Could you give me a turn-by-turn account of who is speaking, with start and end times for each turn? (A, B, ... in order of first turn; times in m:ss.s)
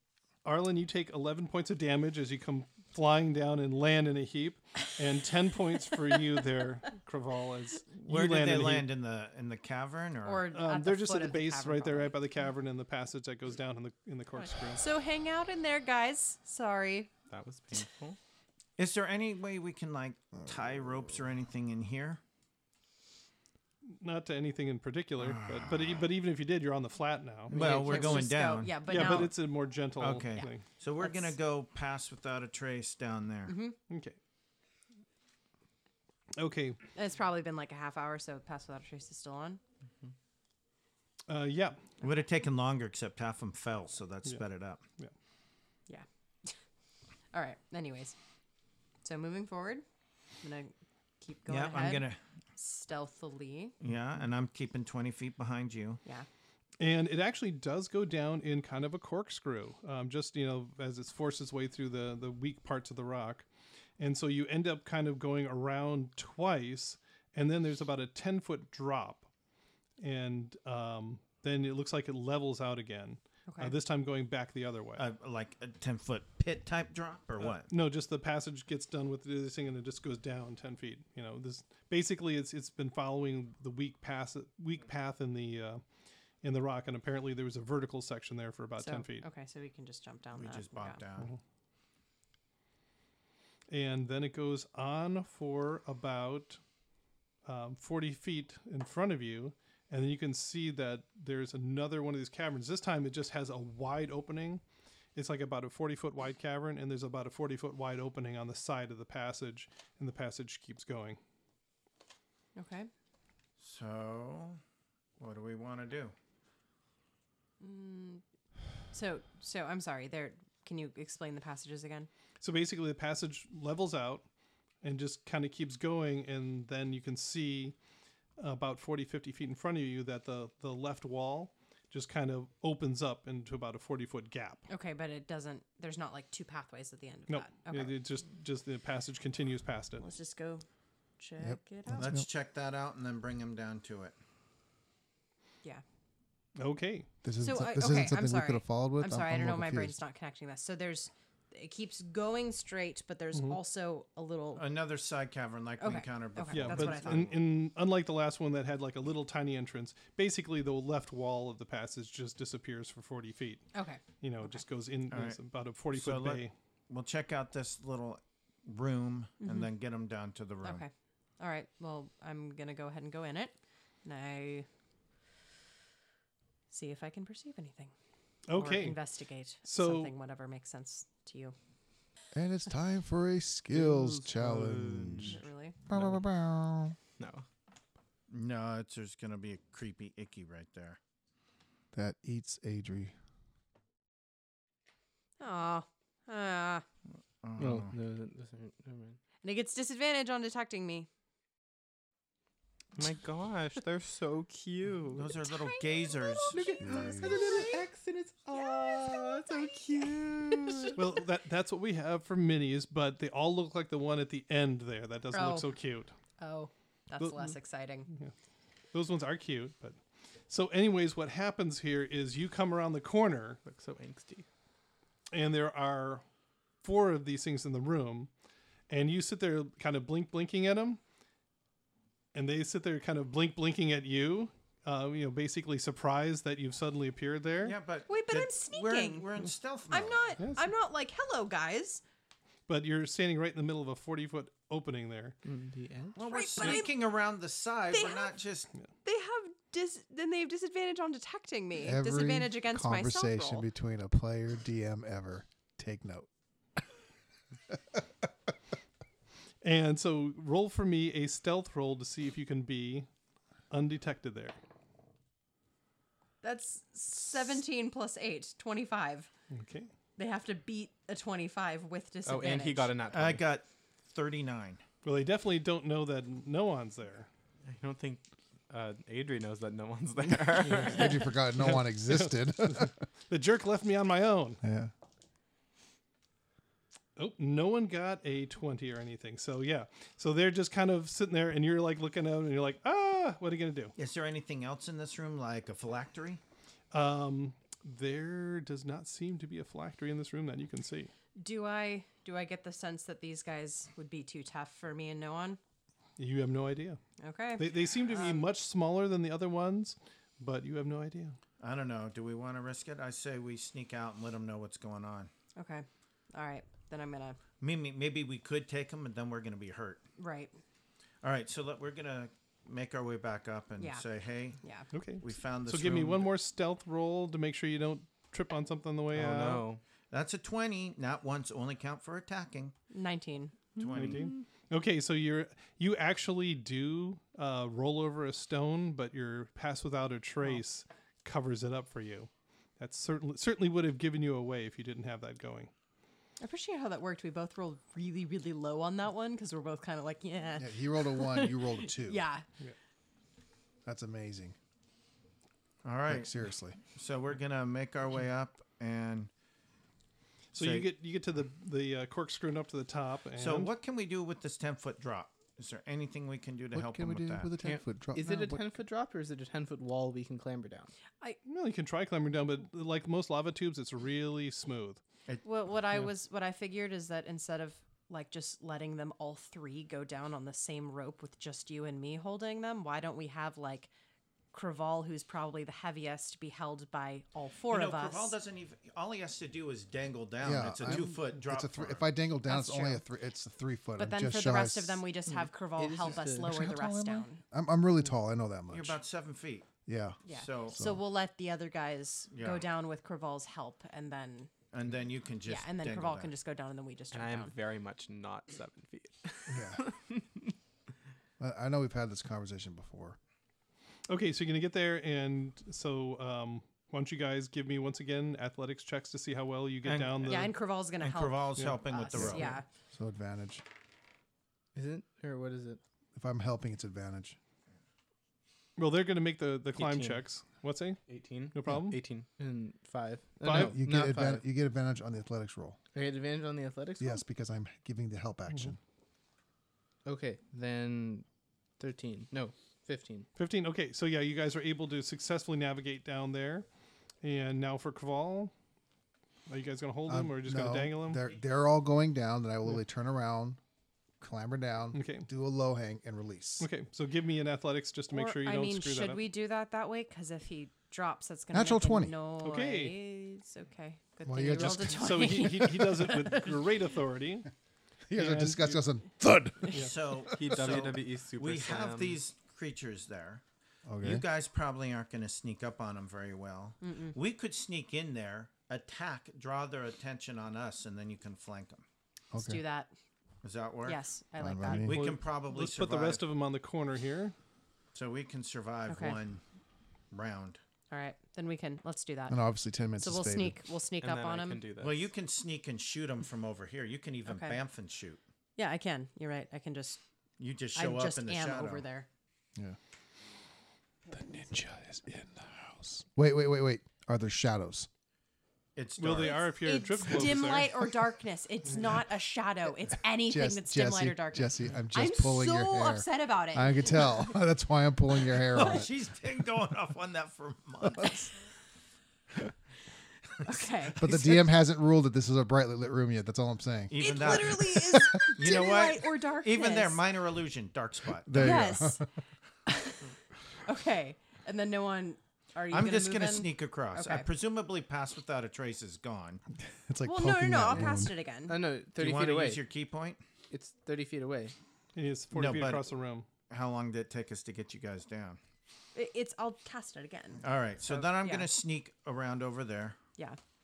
0:00.4-0:08.9 A
0:08.0-0:10.4 B
0:10.2-0:12.1 C
0:10.5-0:14.8 A
0:14.4-0:17.1 C
0:17.3-0:18.2 D
0:18.8-0:22.2 B
0:20.4-0:21.1 E
0:23.9-0:27.6 A
0:25.2-0:26.0 B
0:27.5-0:28.4 F
0:27.5-0:29.3 B
0:27.5-0:29.3 C
0:28.8-0:30.6 A
0:30.0-0:33.5 B
0:30.4-0:31.4 C
0:33.5-0:33.8 C
0:33.9-0:34.2 A
0:36.4-0:36.8 A
0:36.9-0:39.6 C
0:41.3-0:41.8 A
0:42.0-0:44.8 B
0:45.9-0:46.6 C
0:47.3-0:48.2 C
0:49.0-0:49.8 C
0:50.4-0:53.7 C
0:51.5-0:52.2 B
0:53.8-0:56.0 B
0:56.8-1:03.4 A
1:04.0-1:09.3 A
1:10.0-1:15.0 A
1:13.5-1:13.8 C
1:15.0-1:17.7 B
1:17.4-1:25.8 A
1:26.4-1:29.2 A
1:28.8-1:31.0 C
1:30.3-1:31.3 B
1:33.7-1:36.6 A
1:37.4-1:44.6 A
1:45.2-1:51.2 A
1:52.5-1:52.9 C
1:53.6-1:54.6 B
1:55.2-1:56.1 B
1:57.6-1:58.2 C
1:58.9-2:02.1 C
2:02.4-2:04.2 A
2:04.8-2:07.8 A
2:08.4-2:14.6 A
2:14.7-2:17.9 C
2:17.3-2:20.0 A
2:20.0-2:20.6 C
2:21.2-2:22.2 C
2:21.4-2:22.2 E
2:21.9-2:24.2 B
2:26.6-2:27.1 A
2:27.2-2:30.0 E
2:27.4-2:34.6 C
2:34.5-2:37.4 B
2:35.8-2:37.3 C
2:36.5-2:43.6 A
2:43.7-2:44.6 C
2:44.2-2:46.5 A
2:45.1-2:45.4 B
2:45.9-2:50.8 B
2:49.4-2:49.7 C
2:50.6-2:54.7 C
2:56.7-2:57.9 C
2:58.5-2:59.0 A
2:58.5-3:01.5 C
2:59.6-3:00.1 A
3:02.3-3:06.9 E
3:03.7-3:06.2 D
3:05.2-3:05.8 C
3:07.2-3:07.4 D
3:08.3-3:11.0 B
3:11.9-3:13.1 E
3:15.4-3:16.8 C
3:17.4-3:17.9 B
3:17.6-3:19.2 F
3:19.4-3:21.1 C
3:22.9-3:25.4 D
3:25.1-3:26.6 B
3:25.4-3:27.8 C
3:26.5-3:31.0 F
3:26.8-3:27.4 E
3:28.5-3:30.1 C
3:29.6-3:30.9 D
3:30.7-3:30.9 C
3:31.0-3:36.1 A
3:35.3-3:35.7 C
3:36.4-3:38.1 C
3:37.2-3:37.5 A
3:38.9-3:40.0 A
3:40.5-3:43.6 A
3:43.6-3:44.4 D
3:45.3-3:46.2 A
3:46.8-3:48.3 A
3:48.9-3:51.0 A
3:52.3-3:57.8 A
3:57.6-4:00.2 B
3:58.1-3:59.3 C
3:59.9-4:02.0 C
4:00.4-4:00.7 A
4:02.7-4:05.4 A
4:05.4-4:06.2 F
4:06.1-4:08.7 B
4:06.3-4:06.9 C
4:07.9-4:08.4 C
4:09.0-4:13.7 C
4:11.8-4:16.3 E
4:17.7-4:18.0 E
4:19.6-4:23.1 A
4:23.7-4:24.6 A
4:26.4-4:29.3 C
4:29.5-4:29.9 A
4:30.2-4:32.9 C
4:32.2-4:33.5 D
4:33.1-4:34.8 B
4:35.0-4:37.3 A
4:37.6-4:41.2 D
4:40.7-4:42.9 E
4:41.6-4:44.6 A
4:44.6-4:44.9 E
4:47.2-4:53.9 A
4:54.0-4:56.4 B
4:56.9-5:01.1 A
5:01.4-5:05.6 C
5:06.2-5:07.0 A
5:07.2-5:08.5 C
5:07.6-5:11.4 A
5:11.6-5:15.3 B
5:15.6-5:17.4 C
5:17.6-5:20.0 B
5:20.2-5:20.5 C
5:21.2-5:24.6 B
5:23.8-5:24.0 C
5:24.6-5:24.9 C
5:24.9-5:29.6 A
5:25.2-5:26.3 B
5:29.1-5:29.8 D
5:30.1-5:32.7 B
5:32.9-5:33.6 C
5:33.8-5:34.3 B
5:33.9-5:45.7 A
5:46.4-5:52.4 C
5:50.6-5:52.2 E
5:53.8-5:54.6 E
5:55.8-5:59.3 B
5:56.1-5:56.8 E
6:00.5-6:03.7 A
6:00.6-6:00.9 B
6:03.4-6:07.5 B
6:06.7-6:08.8 E
6:07.6-6:10.9 F
6:11.4-6:15.0 A
6:15.4-6:23.9 C
6:24.5-6:28.3 C
6:27.7-6:32.1 B
6:30.4-6:35.0 E
6:32.4-6:33.0 C
6:34.0-6:37.4 C
6:35.3-6:36.5 F
6:36.4-6:39.0 E
6:38.7-6:39.7 B
6:39.8-6:41.0 E
6:40.2-6:44.5 C
6:40.3-6:40.8 B
6:42.3-6:42.7 B
6:44.7-6:46.3 B
6:45.4-6:47.5 C
6:47.1-6:49.9 D
6:49.5-6:49.8 E
6:51.4-6:53.2 E
6:54.1-7:00.5 A
6:59.8-7:02.6 B
7:00.2-7:02.6 C
7:02.1-7:03.6 E
7:04.7-7:05.8 F
7:06.1-7:07.4 E
7:08.8-7:12.0 A
7:09.8-7:10.2 D
7:11.1-7:12.3 D
7:12.4-7:14.4 F
7:13.4-7:13.8 A
7:13.5-7:15.8 E
7:15.9-7:17.2 F
7:17.0-7:18.8 E
7:20.0-7:21.2 F
7:21.8-7:23.3 F
7:23.4-7:26.6 A
7:27.2-7:28.5 A
7:29.5-7:31.2 A
7:30.1-7:33.6 E
7:34.2-7:36.7 E
7:34.9-7:35.3 A
7:36.6-7:39.2 A
7:38.1-7:46.6 C
7:41.5-7:42.1 E
7:42.4-7:43.0 A
7:44.2-7:45.8 E
7:44.6-7:47.5 A
7:48.1-7:50.2 E
7:48.1-7:48.8 A
7:49.7-7:53.4 B
7:50.3-7:52.2 D
7:53.9-7:54.2 E
7:54.0-8:01.8 B
7:56.8-7:57.2 C
8:02.3-8:02.6 E
8:02.4-8:02.9 C
8:03.4-8:04.0 B
8:03.8-8:05.0 C
8:04.4-8:05.1 E
8:04.7-8:06.2 B
8:04.9-8:07.3 A
8:07.9-8:09.4 B
8:08.9-8:09.2 C
8:10.1-8:10.6 B
8:10.9-8:12.4 C
8:12.3-8:13.6 E
8:13.0-8:14.6 C
8:14.0-8:15.1 D
8:14.8-8:18.2 B
8:17.2-8:17.6 C
8:18.6-8:20.0 C
8:20.4-8:21.8 B
8:20.7-8:22.1 C
8:24.1-8:27.9 E
8:28.8-8:29.4 B
8:29.0-8:30.7 A
8:29.2-8:37.3 C
8:33.3-8:38.9 E
8:38.5-8:41.2 B
8:40.9-8:41.2 E
8:43.4-8:44.4 C
8:43.9-8:44.2 B
8:44.0-8:48.4 E
8:46.9-8:51.7 B
8:47.0-8:50.0 C
8:51.2-8:52.1 E
8:51.3-8:52.0 C
8:52.7-8:53.1 C
8:53.6-8:57.3 C
8:55.7-8:59.4 B
8:59.6-9:01.1 E
9:00.0-9:01.6 C
9:01.5-9:02.6 F
9:02.0-9:03.2 B
9:03.5-9:04.5 F
9:04.9-9:06.2 A
9:05.3-9:05.9 B
9:06.5-9:08.4 B
9:08.9-9:11.5 C
9:10.4-9:13.0 B